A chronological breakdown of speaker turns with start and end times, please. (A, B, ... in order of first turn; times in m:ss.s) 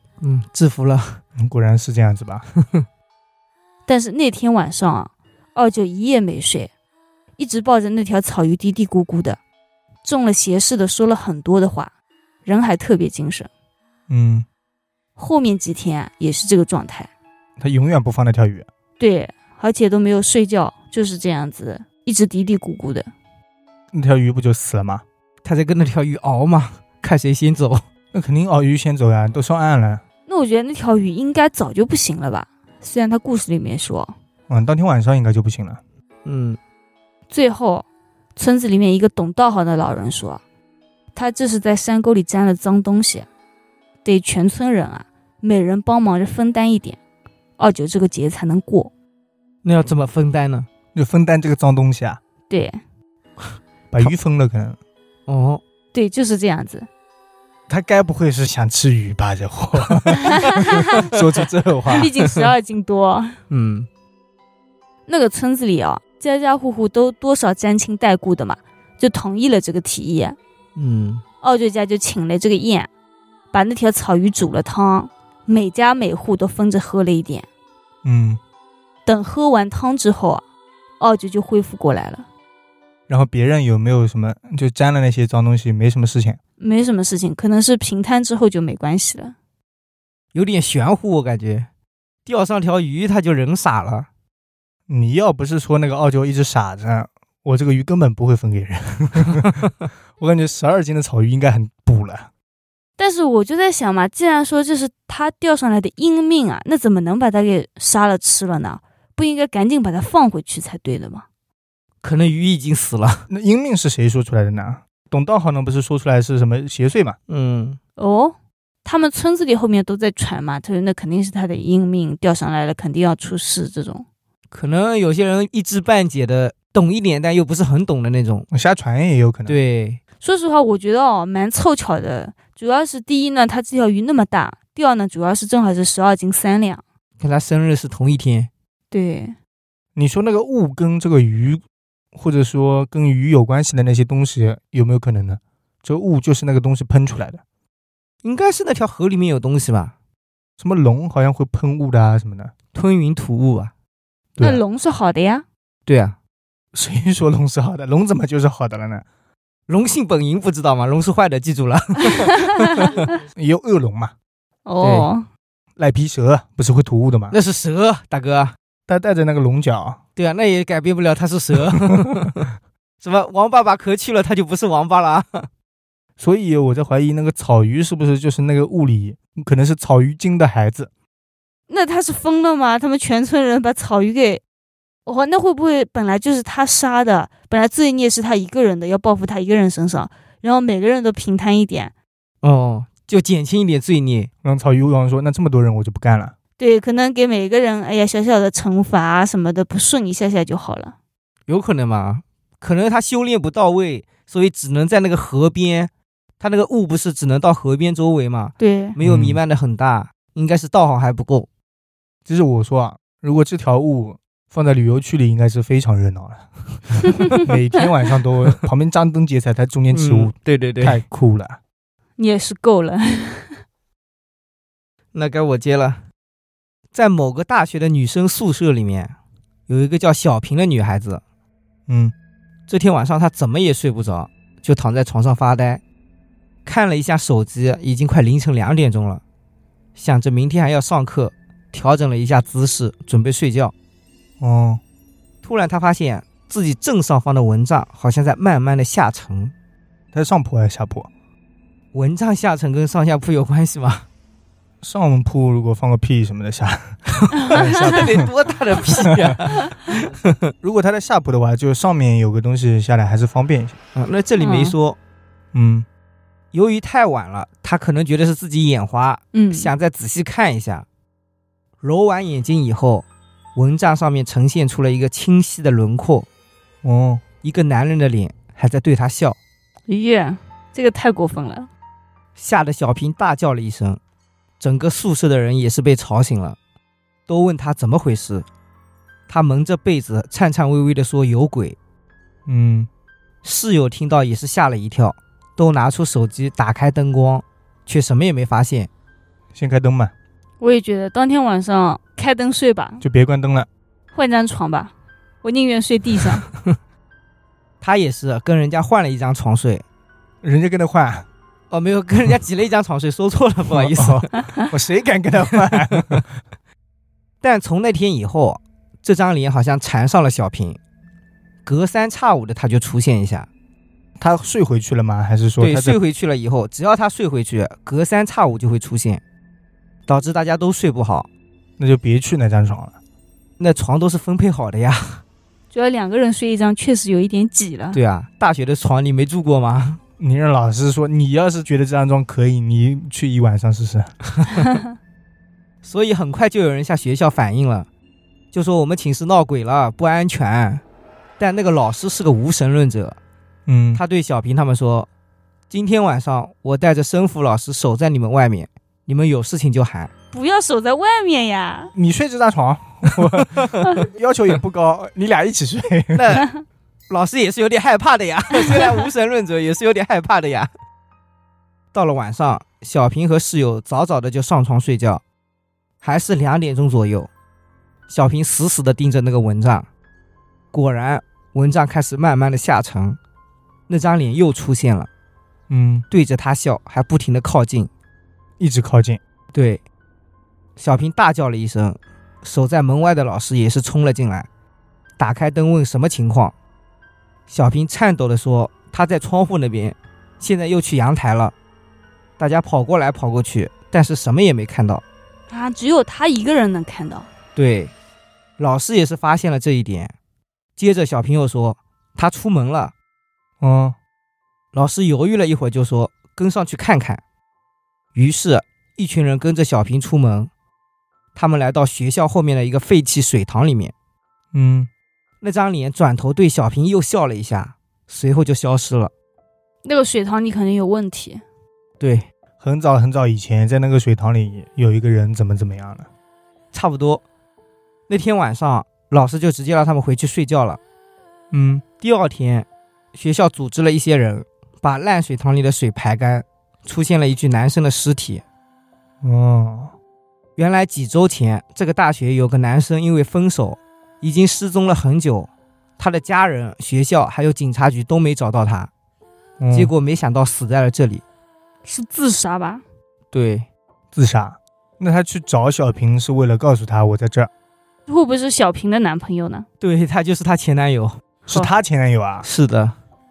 0:00.2-0:01.2 A
0:01.4-0:02.5 B
0:03.8-0:06.7 C
0:07.4-0:09.4 C
0:10.0-0:11.9 C
0:12.4-0:13.5 C
0:14.1-0:14.4 B
0:15.2-0:17.1 C
0:17.6-0:18.7 B
0:19.0-0:23.1 C
0:23.9-0:25.0 B
0:25.4-0:27.8 A
0:28.1-0:30.0 B
0:30.3-0:34.1 C
0:34.5-0:35.8 B
0:36.2-0:36.6 A
0:37.3-0:37.8 C
0:38.4-0:40.4 C
0:41.1-0:43.3 C
0:44.0-0:47.0 C
0:47.6-0:48.9 C
0:49.6-0:50.7 A
0:50.9-0:52.2 B
0:52.5-0:52.8 C
0:53.9-0:54.8 B
0:55.3-0:55.6 A
0:55.9-0:56.9 C
0:57.7-1:02.1 B
1:00.3-1:01.1 C
1:01.9-1:03.4 C
1:03.5-1:03.9 A
1:05.1-1:10.4 C
1:10.8-1:11.2 A
1:11.4-1:12.9 C
1:13.5-1:17.5 C
1:18.0-1:18.4 B
1:19.0-1:20.4 C
1:21.0-1:22.2 C
1:23.1-1:26.4 B
1:26.6-1:29.3 C
1:30.3-1:31.7 A
1:32.2-1:34.1 A
1:34.9-1:42.3 B
1:43.0-1:51.2 C
1:52.0-1:53.3 A
1:53.3-1:57.2 B
1:57.3-1:57.8 A
1:58.0-2:04.0 C
2:04.5-2:08.5 A
2:08.5-2:09.6 B
2:09.5-2:10.0 A
2:10.2-2:16.8 C
2:17.2-2:18.5 A
2:18.9-2:19.4 C
2:20.0-2:21.6 B
2:22.1-2:27.4 B
2:28.2-2:29.9 A
2:30.6-2:32.5 B
2:32.7-2:33.7 A
2:34.4-2:35.4 C
2:35.8-2:36.2 A
2:36.7-2:39.0 B
2:39.7-2:43.0 A
2:42.4-2:42.9 C
2:43.3-2:44.1 B
2:44.6-2:45.3 C
2:44.8-2:45.1 A
2:45.8-2:47.4 B
2:47.3-2:48.6 A
2:48.9-2:50.0 B
2:50.2-2:52.5 A
2:51.7-2:52.3 B
2:53.0-2:55.5 A
2:56.2-3:00.9 B
3:01.7-3:04.4 C
3:05.0-3:11.9 C
3:12.4-3:14.3 A
3:14.4-3:16.3 B
3:16.6-3:20.9 C
3:21.5-3:31.5 A
3:28.6-3:29.0 C
3:29.0-3:29.4 B
3:32.3-3:41.6 B
3:39.9-3:41.0 A
3:42.2-3:43.6 C
3:45.1-3:46.0 A
3:46.9-3:49.1 A
3:49.7-3:51.2 A
3:51.9-3:52.1 B
3:52.7-3:55.8 A
3:56.6-3:59.2 A
4:00.0-4:03.7 A
4:04.4-4:04.8 B
4:05.4-4:09.5 A
4:10.1-4:11.1 B
4:11.9-4:14.0 A
4:14.8-4:18.3 B
4:17.3-4:20.5 A
4:19.1-4:19.3 B
4:20.6-4:23.8 B
4:23.9-4:25.0 A
4:24.4-4:24.8 C
4:25.5-4:25.8 B
4:26.5-4:30.8 A
4:29.3-4:29.7 C
4:31.8-4:36.3 A
4:36.8-4:37.2 B
4:37.4-4:39.4 A
4:39.9-4:41.7 C
4:42.4-4:44.0 A
4:44.6-4:46.6 A
4:47.3-4:48.4 A
4:49.3-4:51.8 A
4:52.4-4:52.9 B
4:53.4-4:58.9 A
4:59.5-5:00.1 B
5:00.6-5:03.0 C
5:03.0-5:03.7 B
5:04.1-5:06.4 C
5:07.8-5:09.8 A
5:10.4-5:11.2 B
5:11.7-5:14.3 A
5:13.7-5:16.3 B
5:15.5-5:16.2 A
5:17.4-5:20.8 A
5:21.6-5:23.5 A
5:24.2-5:26.0 B
5:25.6-5:29.2 A
5:30.1-5:31.3 A
5:31.8-5:33.0 B
5:33.6-5:35.2 A
5:35.7-5:38.0 C
5:37.9-5:40.0 A
5:40.2-5:44.1 B
5:44.5-5:44.8 C
5:45.8-5:47.9 A
5:48.5-5:50.8 A
5:51.4-5:53.2 A
5:53.7-5:54.0 B
5:53.9-5:55.1 A
5:55.7-6:00.1 A
6:00.3-6:01.9 C
6:01.9-6:06.4 B
6:03.2-6:04.0 A
6:06.1-6:06.5 A
6:07.1-6:10.7 A
6:11.9-6:15.2 A
6:16.0-6:17.3 A
6:18.1-6:19.9 A
6:20.7-6:23.2 A
6:23.9-6:25.1 A
6:25.7-6:26.0 B
6:26.1-6:27.9 A
6:28.6-6:29.2 B
6:29.5-6:29.8 A
6:30.8-6:34.5 A
6:35.2-6:36.5 A
6:37.5-6:41.5 A
6:42.4-6:45.0 A
6:45.5-6:47.3 C
6:47.6-6:47.9 A
6:48.6-6:50.1 A
6:50.8-6:52.9 A
6:53.6-6:54.0 B
6:54.7-6:57.2 A
6:58.1-7:00.5 A
7:01.3-7:03.9 A
7:04.5-7:04.9 B
7:05.4-7:09.1 A
7:09.8-7:11.4 C
7:12.0-7:12.2 A
7:12.6-7:16.1 B
7:16.7-7:17.2 A
7:18.1-7:20.8 A
7:21.5-7:21.8 B
7:22.0-7:28.4 A
7:29.2-7:29.9 B
7:30.6-7:38.9 A
7:39.6-7:39.9 B
7:39.7-7:41.2 A
7:41.8-7:42.8 C
7:43.3-7:43.7 A
7:44.1-7:47.5 B
7:48.1-7:49.6 C
7:49.8-7:51.2 A
7:51.5-7:52.5 B
7:52.4-7:53.0 A